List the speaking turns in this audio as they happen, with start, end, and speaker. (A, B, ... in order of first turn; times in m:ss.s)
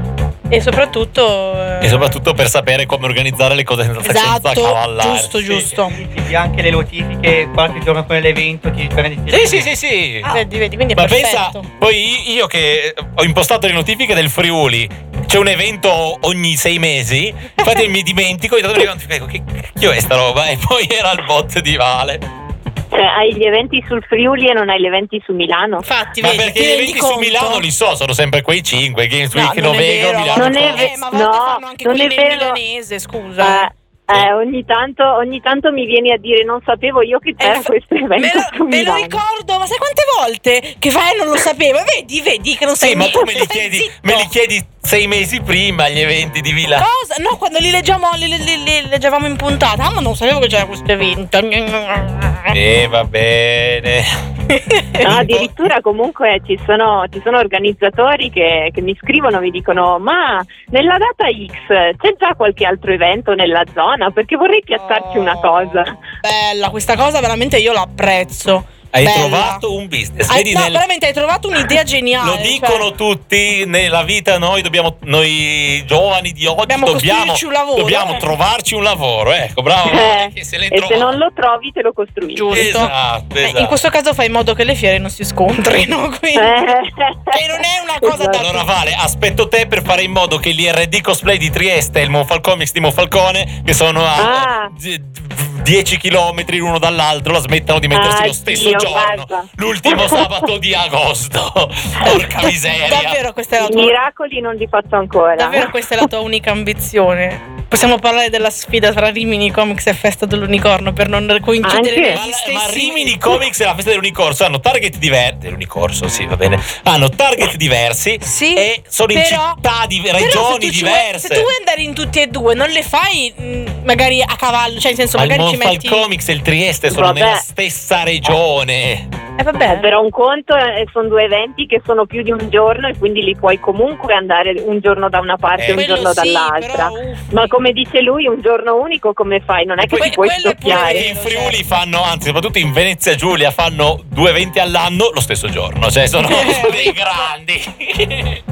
0:00.5-0:02.1 A
0:01.8-0:05.7 B
0:04.0-0:06.0 A
0:05.9-0:09.7 C
0:09.3-0:10.4 B
0:10.2-0:11.7 A
0:11.0-0:22.2 B
0:22.9-0:25.9 D
0:25.8-0:27.7 A
0:26.2-0:30.9 B
0:29.3-0:33.7 A
0:30.4-0:32.6 D
0:33.4-0:39.2 D
0:37.4-0:44.3 A
0:42.8-0:46.9 B
0:46.8-0:52.6 A
0:52.5-0:54.1 B
0:54.5-0:55.1 A
0:55.0-1:05.9 D
0:55.0-0:55.7 B
1:04.8-1:09.6 A
1:08.9-1:10.8 B
1:10.3-1:12.9 A
1:12.2-1:21.2 B
1:16.7-1:18.2 A
1:19.9-1:22.7 D
1:22.3-1:26.6 A
1:22.5-1:23.8 B
1:26.4-1:27.4 D
1:27.3-1:28.7 A
1:28.0-1:28.4 D
1:28.3-1:43.2 B
1:34.2-1:34.7 D
1:37.9-1:40.3 D
1:42.1-1:44.0 A
1:43.6-1:45.7 D
1:45.4-1:53.3 A
1:51.6-1:52.2 D
1:52.1-2:01.5 B
1:58.2-1:59.6 A
2:00.2-2:06.1 A
2:05.1-2:09.1 B
2:06.9-2:07.4 D
2:09.4-2:09.9 A
2:09.7-2:21.1 D
2:15.6-2:16.1 B
2:15.7-2:17.6 A
2:19.9-2:21.6 A
2:20.7-2:28.4 B
2:26.2-2:27.0 A